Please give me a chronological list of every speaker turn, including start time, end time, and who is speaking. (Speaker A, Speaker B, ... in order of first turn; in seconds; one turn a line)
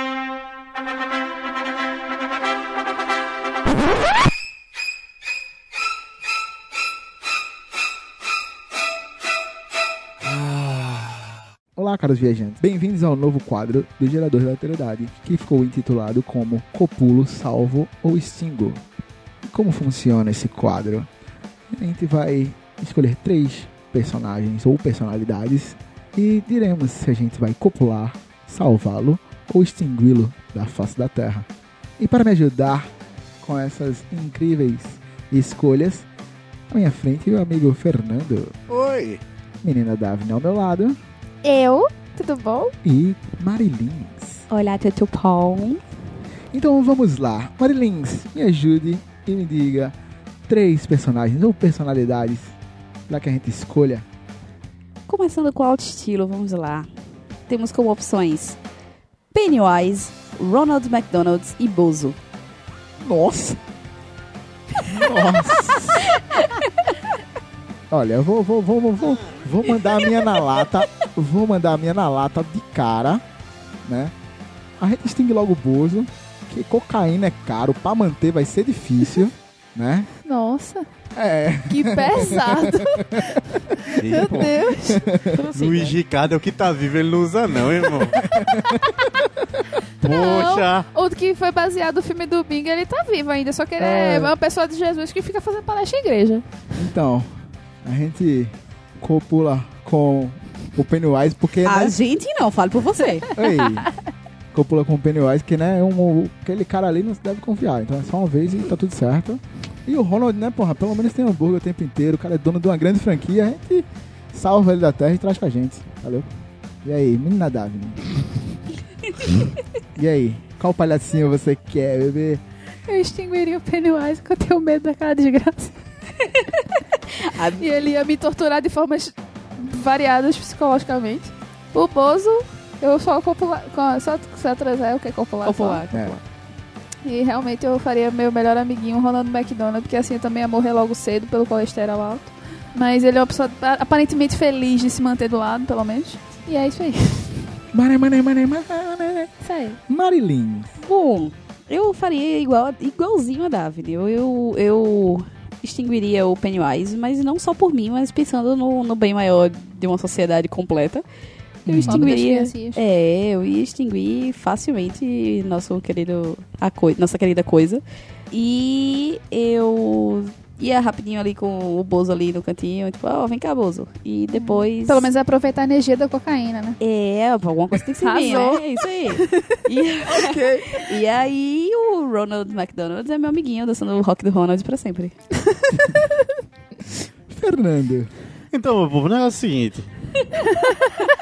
Speaker A: 10.2-11.1
Speaker A: 11.7-18.8
Speaker A: 19.4-21.1
Speaker A: 21.7-31.5
Speaker A: 32.0-32.9
Speaker A: 33.4-36.1
Speaker A: 36.7-38.5
Speaker B: 38.7-39.2
Speaker A: 39.6-41.0
Speaker C: 41.4-42.7
Speaker A: 42.8-44.5
Speaker D: 44.5-45.8
Speaker A: 46.5-50.0
Speaker A: 50.5-52.5
Speaker A: 53.1-54.0
Speaker D: 55.1-56.9
Speaker D: 57.5-58.6
Speaker D: 59.3-62.2
Speaker A: 63.0-63.6
Speaker A: 64.8-66.1
Speaker A: 67.9-73.2
Speaker A: 73.8-74.1
Speaker A: 74.8-80.1
Speaker C: 80.2-80.9
Speaker A: 81.1-83.4
Speaker C: 81.7-85.2
Speaker B: 84.0-84.5
Speaker A: 84.8-85.4
Speaker B: 85.5-88.2
Speaker A: 88.2-89.0
Speaker B: 90.0-90.9
Speaker C: 90.0-96.4
Speaker D: 93.8-94.2
Speaker A: 96.7-97.3
Speaker A: 97.8-102.0
Speaker D: 101.6-103.3
Speaker A: 103.3-103.9
Speaker A: 104.5-116.3
Speaker A: 116.8-118.3
Speaker A: 119.9-122.4
Speaker C: 122.9-125.7
Speaker D: 127.3-127.6
Speaker C: 127.5-135.8
Speaker D: 135.4-136.2
Speaker A: 135.9-136.2
Speaker C: 137.0-147.4
Speaker A: 147.7-149.3
Speaker C: 149.4-149.8
Speaker A: 149.8-150.7
Speaker D: 150.8-161.0
Speaker A: 161.6-162.1
Speaker D: 161.7-175.1
Speaker C: 161.8-162.8
Speaker C: 174.3-176.8
Speaker D: 176.8-185.1
Speaker C: 177.9-180.8
Speaker A: 187.3-188.1
Speaker B: 188.5-189.9